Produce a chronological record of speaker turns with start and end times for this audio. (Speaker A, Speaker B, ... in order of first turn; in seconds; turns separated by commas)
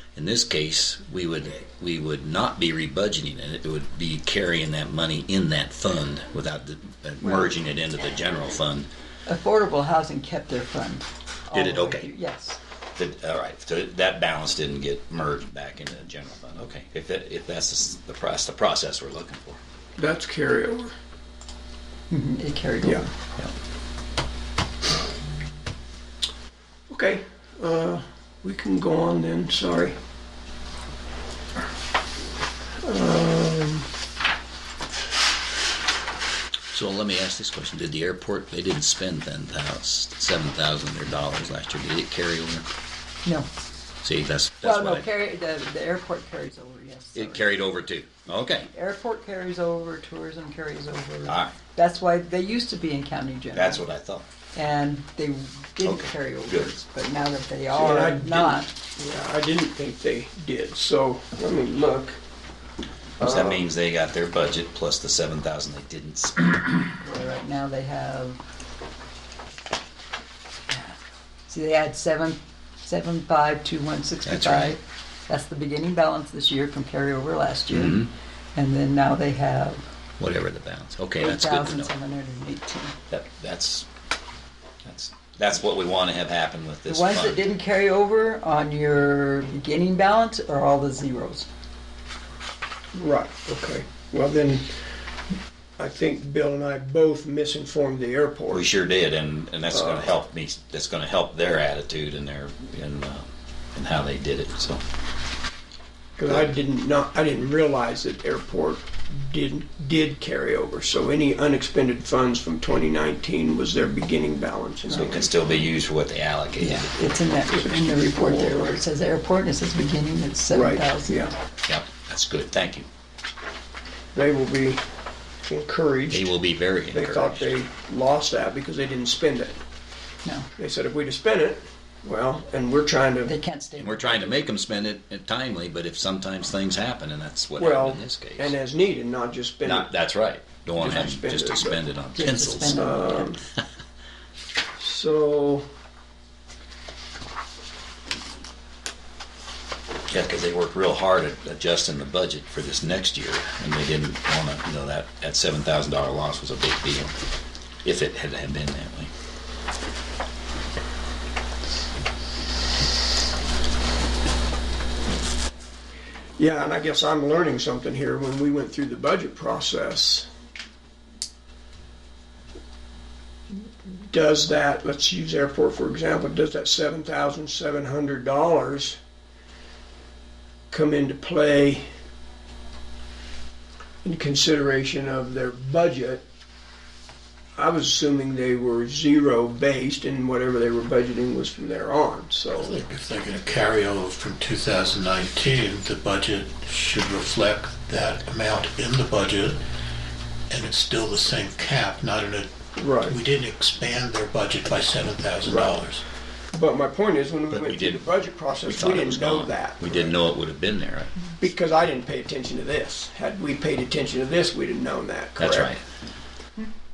Speaker A: 0.1-8.9, Speaker B: 7.2-7.5, Speaker B: 9.3-12.6, Speaker A: 11.5-12.1, Speaker A: 13.0-19.6, Speaker C: 20.0-20.9, Speaker B: 22.1-23.1, Speaker C: 26.9-29.9, Speaker C: 32.8-33.9, Speaker A: 36.7-42.7, Speaker A: 44.0-45.1, Speaker B: 44.6-47.5, Speaker A: 47.1-48.7, Speaker B: 48.7-53.8, Speaker A: 51.2-51.5, Speaker A: 53.5-54.2, Speaker B: 54.5-58.7, Speaker A: 55.8-56.7, Speaker C: 57.7-62.2, Speaker C: 63.2-63.6, Speaker A: 63.2-67.0, Speaker B: 67.0-68.4, Speaker B: 70.7-71.0, Speaker B: 71.5-79.8, Speaker A: 74.2-74.8, Speaker A: 77.7-78.1, Speaker A: 80.2-81.9, Speaker B: 81.2-83.0, Speaker A: 83.1-83.9, Speaker A: 84.8-87.4, Speaker B: 86.9-91.5, Speaker C: 92.9-94.7, Speaker C: 95.8-98.7, Speaker A: 98.5-104.8, Speaker C: 99.7-100.1, Speaker C: 106.2-115.3, Speaker A: 114.9-117.1, Speaker B: 116.6-121.3, Speaker C: 117.5-118.8, Speaker C: 120.5-121.3, Speaker A: 121.7-122.9, Speaker C: 124.1-124.8, Speaker C: 125.5-126.3, Speaker A: 126.1-127.5, Speaker C: 126.9-129.6, Speaker B: 130.2-130.5, Speaker C: 130.6-133.3, Speaker B: 133.2-134.3, Speaker A: 133.8-138.5, Speaker C: 137.6-139.9, Speaker A: 139.6-142.9, Speaker C: 140.8-143.4, Speaker B: 142.2-143.4, Speaker C: 144.8-145.6, Speaker A: 150.1-157.1, Speaker A: 157.8-159.1, Speaker C: 166.4-170.3, Speaker C: 174.1-179.0, Speaker C: 180.7-181.8, Speaker C: 184.0-186.2, Speaker C: 187.6-192.7, Speaker D: 192.5-199.6, Speaker D: 200.5-202.5, Speaker C: 202.8-203.2, Speaker D: 203.1-206.0, Speaker C: 205.4-205.9, Speaker C: 206.5-210.2, Speaker A: 207.5-211.2, Speaker C: 211.4-215.7, Speaker A: 215.4-215.8